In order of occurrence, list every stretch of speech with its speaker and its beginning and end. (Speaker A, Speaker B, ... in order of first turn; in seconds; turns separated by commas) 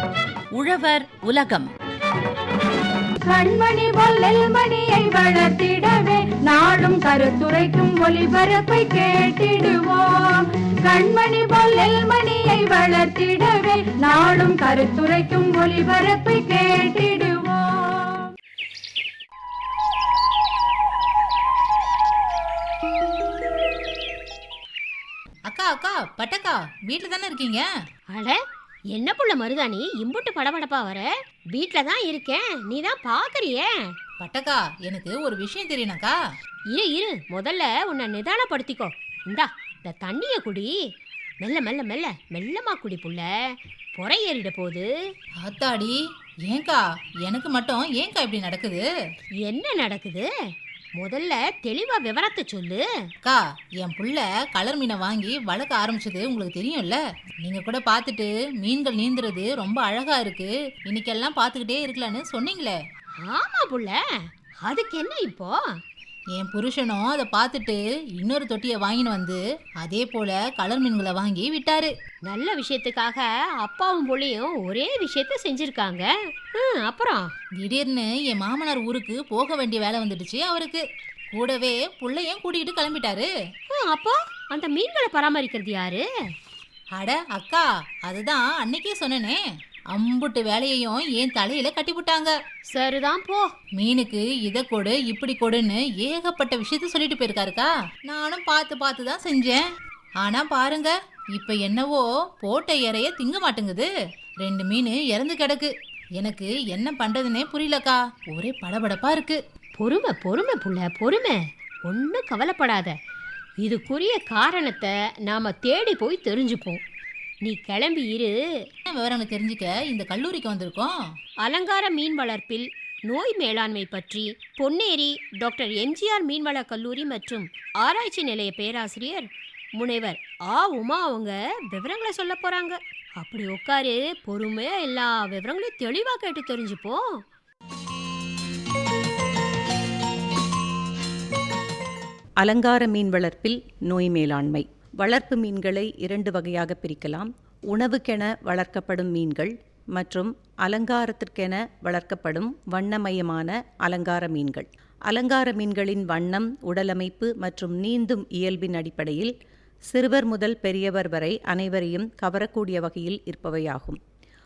Speaker A: 3.2-18.3, Speaker B: 25.5-27.6, Speaker C: 28.1-28.4, Speaker C: 28.9-33.9, Speaker B: 34.2-36.1, Speaker C: 36.7-40.8, Speaker C: 41.4-44.9, Speaker B: 45.4-48.8, Speaker C: 49.4-50.3, Speaker C: 51.0-52.9, Speaker B: 53.2-62.8, Speaker C: 63.2-65.8, Speaker B: 66.3-71.9, Speaker C: 72.2-77.3, Speaker B: 77.6-83.3, Speaker C: 83.7-86.1, Speaker B: 87.0-89.4, Speaker B: 89.9-92.3, Speaker C: 92.7-93.5, Speaker B: 93.8-99.6, Speaker B: 100.2-103.9, Speaker B: 104.4-109.4, Speaker C: 109.8-113.0, Speaker C: 113.6-116.8, Speaker C: 117.4-118.7, Speaker B: 118.9-121.0, Speaker C: 121.4-137.2, Speaker D: 142.4-159.3, Speaker D: 159.9-164.0